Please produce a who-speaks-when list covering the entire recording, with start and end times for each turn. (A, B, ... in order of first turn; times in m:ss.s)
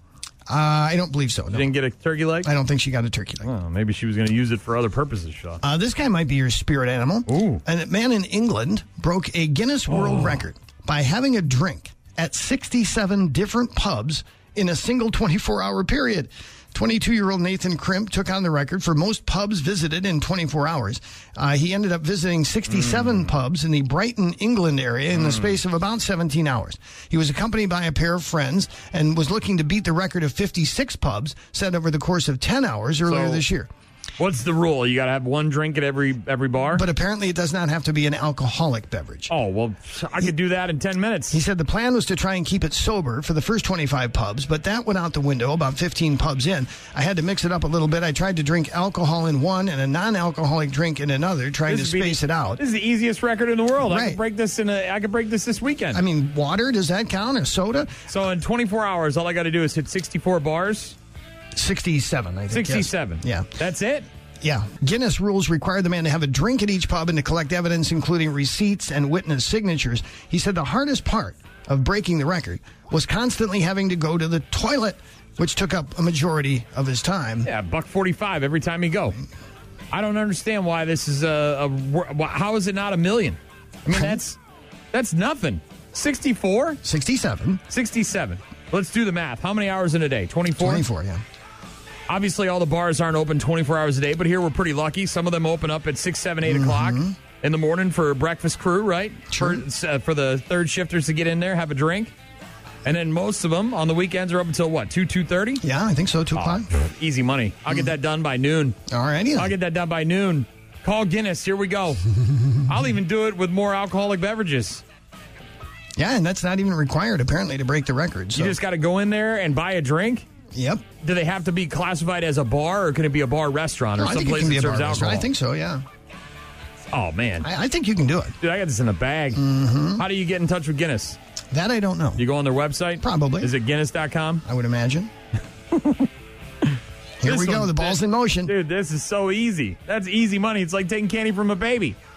0:00.5-0:01.7 A
0:01.5-0:02.5 B
0:02.4-0:03.5 A
0:03.4-0:05.6 B
0:05.6-0:33.7 A
0:07.3-0:07.6 B
0:09.9-0:10.4 B
0:22.7-0:23.3 B
0:25.1-0:25.6 B
0:33.1-0:33.4 B
0:34.2-0:36.8 B
0:36.7-0:39.3 A
0:39.3-0:41.4 B
0:41.3-0:52.6 A
0:51.7-0:56.0 B
0:53.8-0:54.2 A
0:55.9-0:58.0 A
0:58.1-1:01.0 B
1:01.5-1:03.5 A
1:02.5-1:04.1 B
1:04.4-1:17.5 A
1:17.4-1:19.2 B
1:19.9-1:24.4 B
1:23.9-1:24.2 A
1:24.9-1:26.8 B
1:26.8-1:27.6 A
1:27.7-1:30.8 B
1:30.6-1:31.2 A
1:32.1-1:42.1 B
1:36.4-1:37.2 A
1:39.3-1:39.6 A
1:42.8-1:45.6 B
1:45.6-1:46.7 A
1:46.4-1:48.8 B
1:48.9-1:49.5 A
1:49.4-1:52.0 B
1:52.7-1:54.8 B
1:56.0-1:58.6 A
1:58.4-2:00.3 B
2:00.5-2:00.8 A
2:01.0-2:05.3 B
2:04.0-2:05.8 A
2:06.9-2:07.5 B
2:07.4-2:08.4 A
2:08.4-2:09.4 B
2:09.3-2:10.0 A
2:10.0-2:11.2 B
2:11.5-2:12.2 A
2:12.2-2:14.4 B
2:13.0-2:13.5 A
2:14.4-2:15.1 A
2:15.7-2:16.1 B
2:16.7-2:22.0 B
2:17.2-2:18.5 A